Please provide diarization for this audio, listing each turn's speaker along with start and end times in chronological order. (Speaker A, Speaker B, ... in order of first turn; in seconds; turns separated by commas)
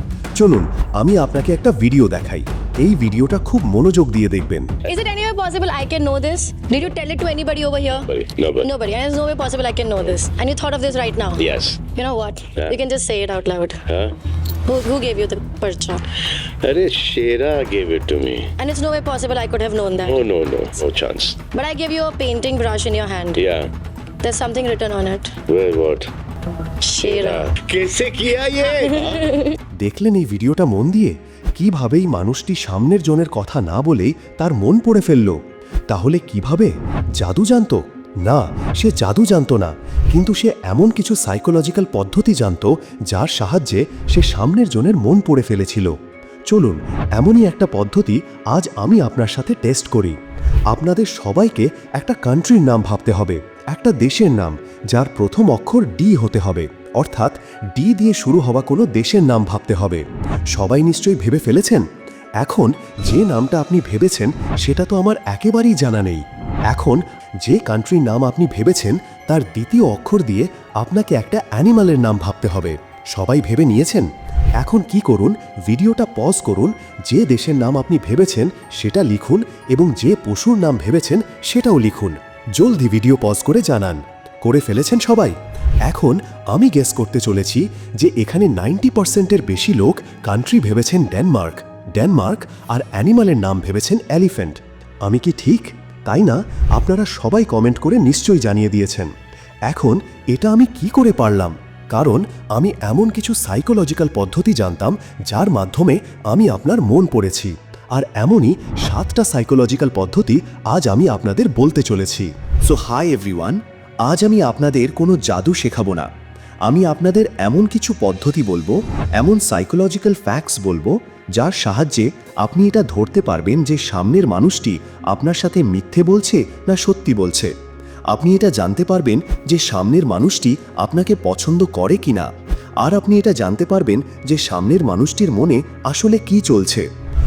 Speaker A: 0.4-4.7, Speaker B: 4.8-8.1, Speaker C: 8.0-8.7, Speaker B: 8.6-13.8, Speaker C: 11.4-11.9, Speaker C: 13.9-14.1, Speaker B: 14.7-16.0, Speaker C: 16.6-18.5, Speaker B: 18.6-20.2, Speaker C: 20.0-21.4, Speaker B: 21.5-23.4, Speaker C: 23.4-23.7, Speaker B: 24.2-25.3, Speaker C: 25.5-26.1, Speaker B: 26.8-27.5, Speaker C: 27.0-29.3, Speaker B: 28.7-29.6, Speaker A: 29.8-35.4, Speaker A: 35.9-45.9, Speaker A: 46.5-50.2, Speaker A: 50.7-61.9, Speaker A: 62.4-99.1, Speaker A: 99.7-116.1, Speaker A: 116.7-127.5, Speaker A: 128.1-132.3, Speaker A: 132.8-136.8